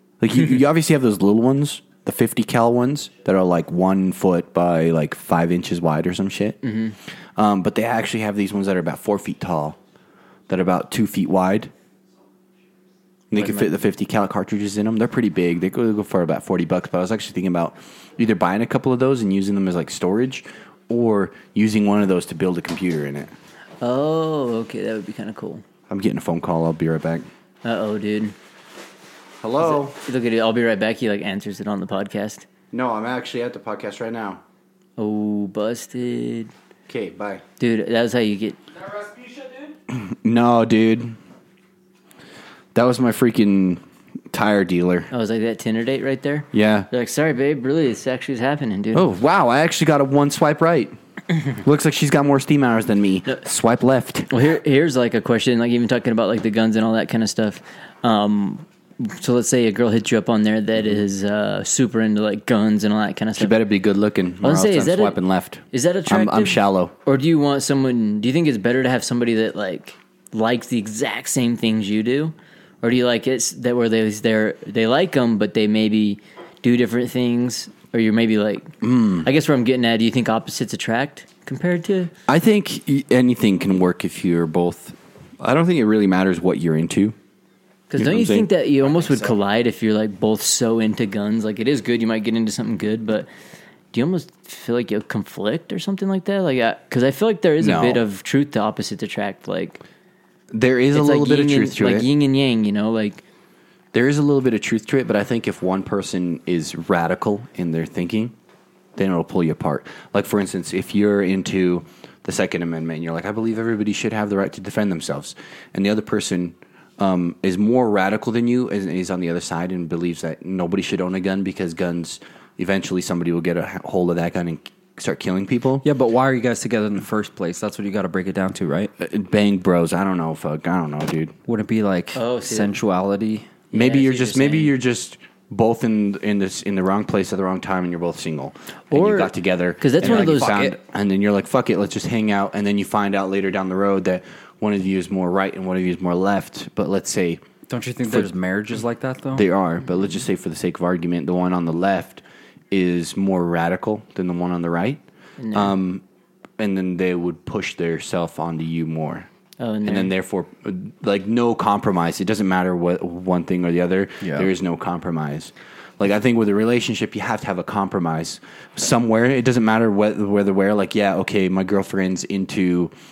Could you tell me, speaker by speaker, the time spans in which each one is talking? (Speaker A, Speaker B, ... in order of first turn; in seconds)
Speaker A: 0.2-6.6, 7.4-9.8, 10.5-11.7, 13.3-23.3, 25.9-27.2, 29.4-30.0, 32.7-34.4, 36.9-37.4, 39.9-41.1, 42.8-45.1, 46.5-46.9, 48.9-50.9, 51.5-54.3, 63.4-66.9, 78.8-79.3, 82.3-87.2, 88.0-88.5, 97.6-98.0, 100.5-102.1, 103.9-108.3, 109.0-125.8, 129.0-131.3, 133.7-147.4, 149.3-156.0, 156.6-159.3, 159.8-172.9
Speaker B: 6.6-7.0, 13.3-13.7, 23.8-25.6, 27.6-28.4, 29.6-32.5, 35.0-36.5, 37.6-38.6, 45.1-49.0, 54.3-63.5, 64.4-65.2, 65.7-82.1, 87.9-93.3, 93.9-99.8, 100.9-103.2, 132.1-132.7, 133.7-134.7, 138.9-140.6, 155.4-155.8, 159.6-160.1
Speaker C: 39.2-39.5, 125.8-128.9, 131.5-133.5, 140.0-140.8, 147.7-149.4, 164.2-164.5